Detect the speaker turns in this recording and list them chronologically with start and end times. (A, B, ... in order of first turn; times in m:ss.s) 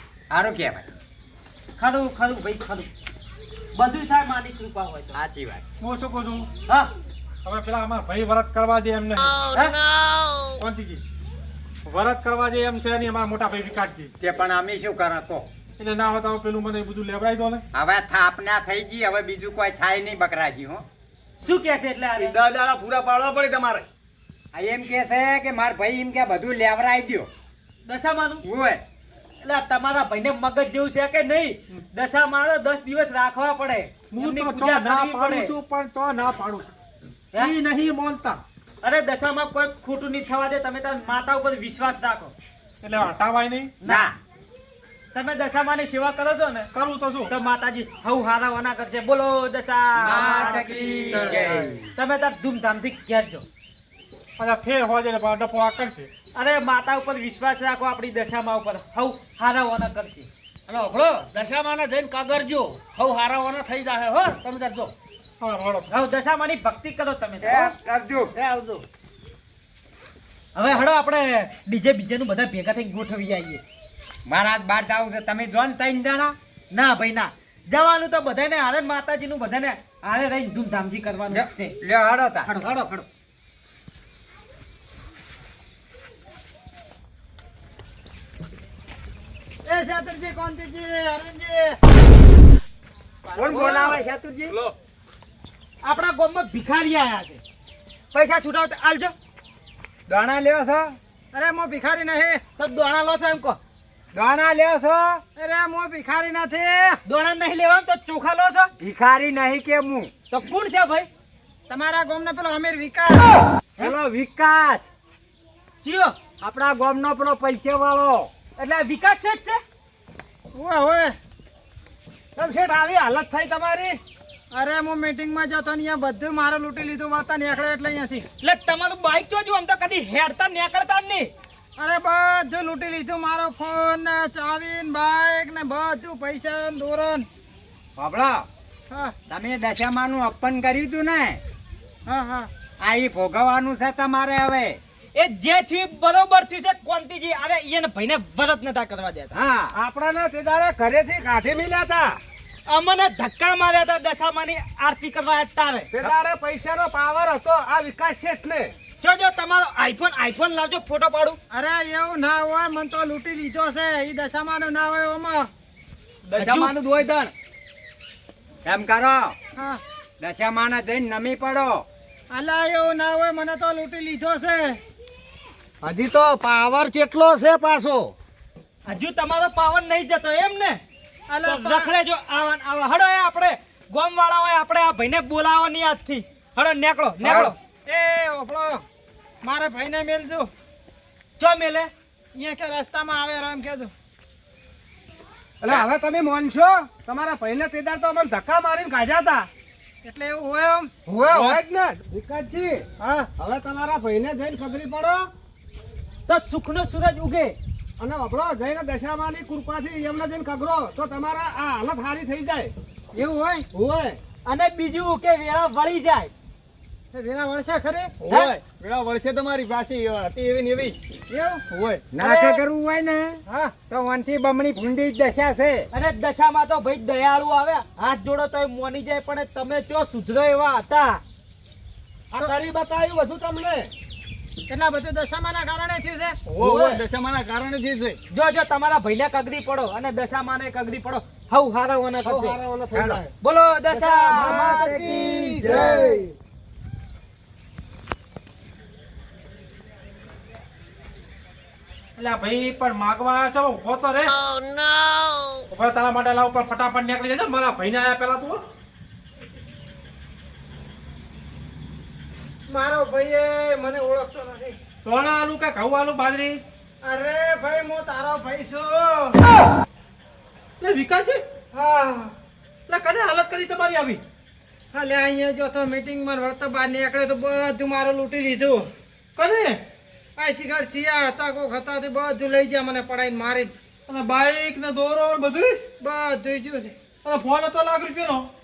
0:00.3-0:00.9 A
0:01.8-0:02.9 B
0:03.8-0:05.2 B
0:05.1-0:05.7 A
0:05.8-0:06.5 C
0:07.4-0:09.5 C
0:09.5-0:09.8 B
0:10.6-0:11.0 C
0:11.9-0:14.1 C
0:14.2-0:15.5 A
0:15.8-0:17.6 C
0:17.7-0:20.9 A
0:21.4-0:22.4 B
0:22.2-0:23.9 D
0:24.5-0:27.3 A
0:27.9-0:28.4 B
0:28.4-0:28.8 A
0:29.4-0:35.5 B
0:34.1-0:36.7 C
0:37.4-0:38.4 C
0:38.8-0:42.3 B
0:42.8-0:43.7 C
0:43.8-0:44.1 B
0:43.8-0:44.2 A
0:45.1-0:46.7 B
0:46.7-0:47.3 C
0:47.3-0:53.4 B
0:50.0-0:51.9 A
0:50.2-0:51.8 C
0:54.4-0:56.1 C
0:56.4-1:00.3 B
1:00.7-1:04.9 E
1:05.4-1:05.9 C
1:05.9-1:07.7 B
1:07.4-1:08.3 A
1:08.4-1:08.8 E
1:10.6-1:13.6 B
1:14.3-1:16.4 A
1:16.7-1:21.8 B
1:21.3-1:22.5 A
1:22.5-1:23.1 B
1:29.6-1:31.8 F
1:33.3-1:34.6 A
1:33.5-1:34.0 F
1:35.8-1:37.4 B
1:38.1-1:39.1 B
1:40.1-1:41.0 A
1:41.3-1:42.4 F
1:42.6-1:43.6 B
1:44.1-1:45.2 A
1:45.4-1:47.0 F
1:47.1-1:48.7 B
1:48.8-1:50.1 A
1:50.3-1:51.1 B
1:51.7-1:53.3 F
1:53.8-1:54.9 A
1:55.8-1:56.1 B
1:56.4-1:58.3 A
1:58.6-1:59.6 B
2:00.5-2:01.2 F
2:02.4-2:04.0 E
2:04.5-2:08.3 F
2:08.4-2:11.3 B
2:11.8-2:17.3 F
2:18.0-2:18.5 A
2:19.3-2:21.4 A
2:22.1-2:22.5 F
2:22.8-2:24.8 A
2:25.2-2:29.3 B
2:29.3-2:29.8 A
2:29.7-2:32.2 E
2:32.7-2:35.9 B
2:35.9-2:38.7 E
2:39.0-2:41.4 B
2:41.5-2:45.5 F
2:46.3-2:47.3 D
2:46.4-2:46.8 B
2:48.6-2:49.4 A
2:49.6-2:49.8 F
2:50.2-2:51.8 A
2:52.3-2:54.8 F
2:55.8-2:58.1 E
2:58.9-3:00.8 B
3:01.3-3:01.9 F
3:01.4-3:07.5 B
3:07.2-3:08.8 F
3:09.4-3:10.5 F
3:11.4-3:11.9 B
3:12.4-3:13.9 F
3:15.6-3:19.5 E
3:20.0-3:20.9 F
3:21.1-3:22.9 E
3:23.0-3:23.3 F
3:23.4-3:25.3 E
3:26.3-3:27.6 B
3:28.0-3:32.7 E
3:33.2-3:33.7 F
3:33.7-3:34.2 E
3:34.5-3:36.3 B
3:37.1-3:38.1 F
3:38.2-3:41.0 D
3:38.3-3:38.6 B
3:41.3-3:41.6 F
3:41.7-3:42.0 D
3:42.1-3:45.9 A
3:42.2-3:42.6 B
3:43.5-3:43.7 F
3:45.9-3:51.2 B
3:52.3-3:53.9 E
3:54.7-3:56.4 F
3:56.5-3:58.2 D
3:56.6-3:57.0 E
3:58.3-4:02.6 B
4:02.2-4:03.3 E
4:02.9-4:03.2 C
4:03.4-4:05.2 B
4:03.9-4:06.4 E
4:04.4-4:06.2 A
4:12.2-4:14.4 C
4:15.7-4:18.6 C
4:22.7-4:24.8 F
4:25.0-4:26.6 C
4:27.0-4:29.4 F
4:30.8-4:31.4 C
4:31.7-4:32.3 F
4:32.9-4:34.2 C
4:34.9-4:38.9 F
4:39.4-4:39.8 C
4:40.4-4:43.7 F
4:44.1-4:45.8 C
4:46.0-4:46.9 F
4:47.2-4:48.5 C